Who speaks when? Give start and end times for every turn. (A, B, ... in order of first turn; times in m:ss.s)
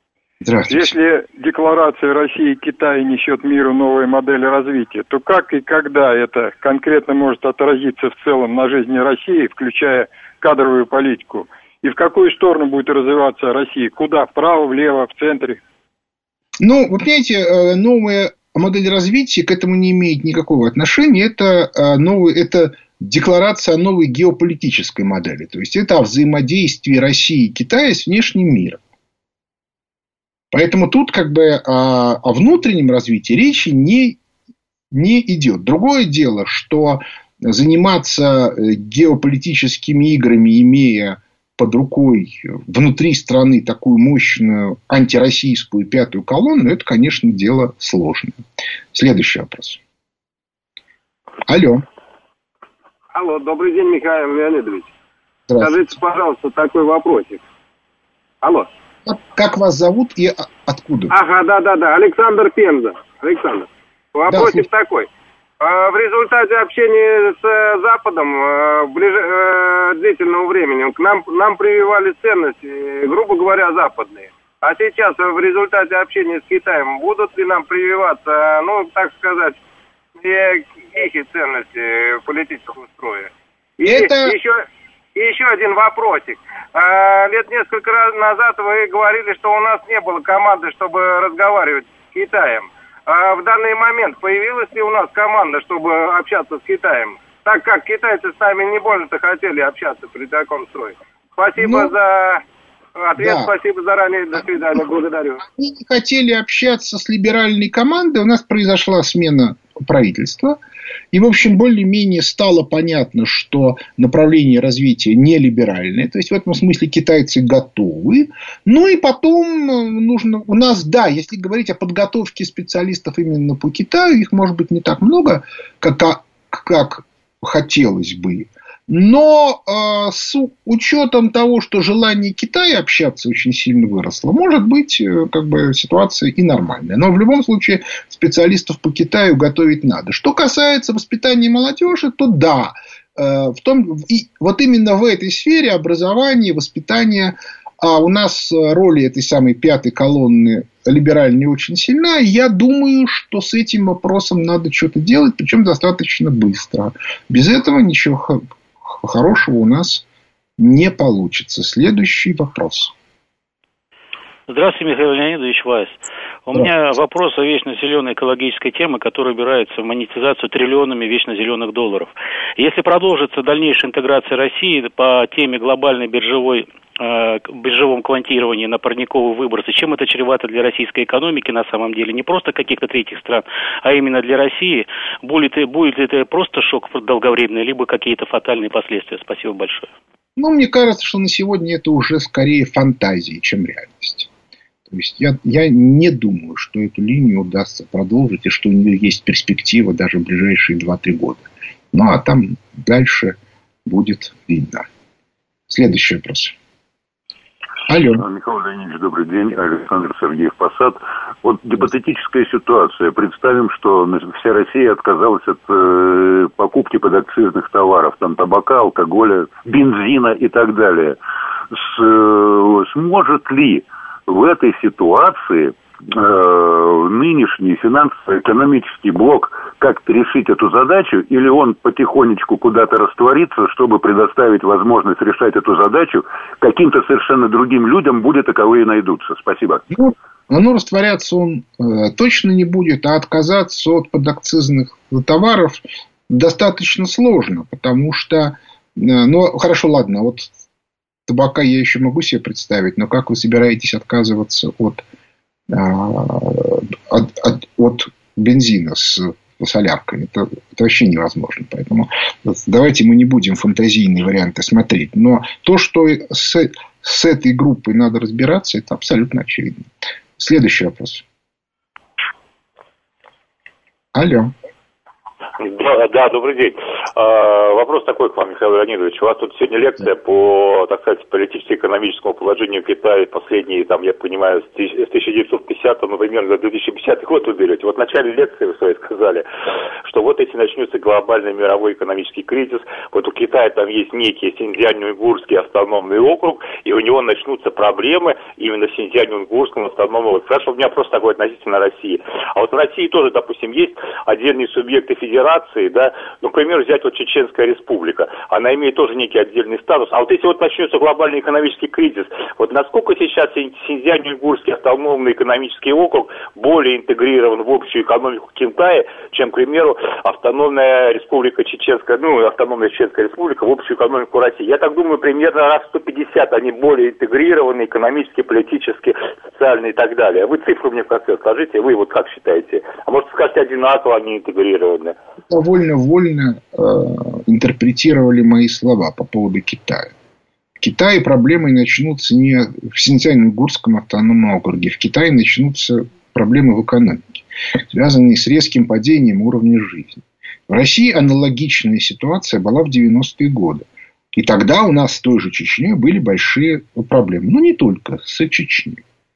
0:00.4-0:01.0 A
0:00.7-0:15.6 B
0:16.6-0:28.8 A
0:30.5-0:34.2 A
0:34.9-0:48.4 A
0:48.9-0:49.8 A
0:51.5-0:51.8 A
0:53.1-0:54.9 C
0:55.5-0:55.9 A
0:55.6-0:57.4 C
0:58.4-0:58.7 C
0:59.1-1:01.1 A
1:01.1-1:05.1 C
1:04.3-1:04.6 A
1:05.6-1:19.6 C
1:20.2-1:42.4 C
1:23.8-1:24.4 A
1:41.6-1:41.9 A
1:43.0-1:45.4 C
1:43.2-1:43.5 A
1:45.5-1:50.6 A
1:51.1-2:40.0 A
2:40.6-2:42.9 A
2:44.5-3:09.9 D
3:10.4-3:14.3 A
3:14.9-3:24.9 A
3:25.7-3:26.5 A
3:27.9-3:28.2 A
3:28.1-3:41.2 E
3:41.7-3:59.8 E
3:59.9-4:10.5 A
4:11.3-4:15.0 A
4:15.7-4:31.2 A
4:34.1-4:34.5 A
4:35.6-4:49.4 F
4:50.0-5:35.2 F
5:35.5-5:40.1 A
5:40.8-5:59.0 A